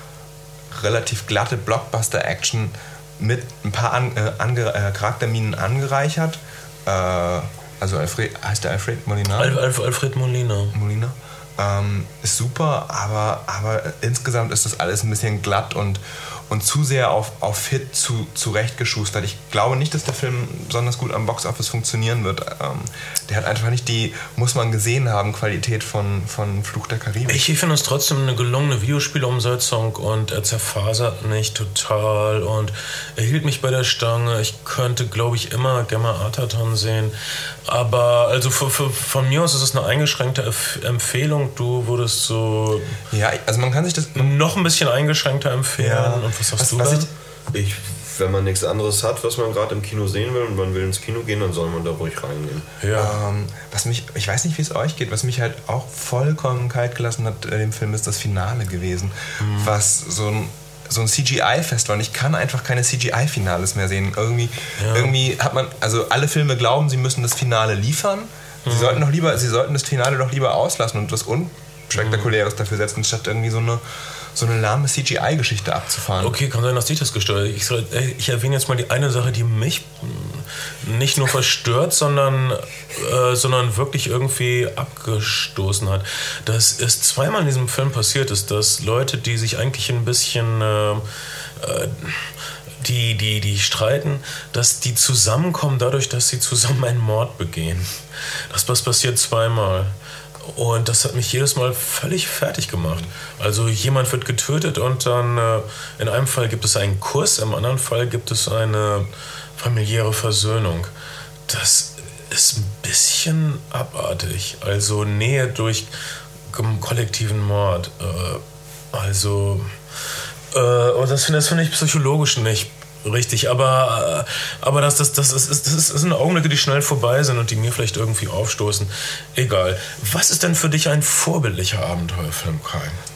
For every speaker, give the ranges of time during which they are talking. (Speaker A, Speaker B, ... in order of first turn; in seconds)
Speaker A: 0.7-9.6, 10.7-27.4, 43.1-44.4, 45.8-47.1, 52.9-73.8, 74.3-76.3
Speaker B: 9.3-10.7, 27.3-37.1, 37.6-42.9, 44.1-47.1, 52.8-53.1, 59.4-59.7, 64.8-65.1, 68.6-69.0, 72.0-72.3, 76.2-91.0, 91.6-97.9, 98.5-99.9, 100.4-110.9, 111.5-115.9, 116.5-119.7, 120.5-133.0
Speaker C: 47.5-52.6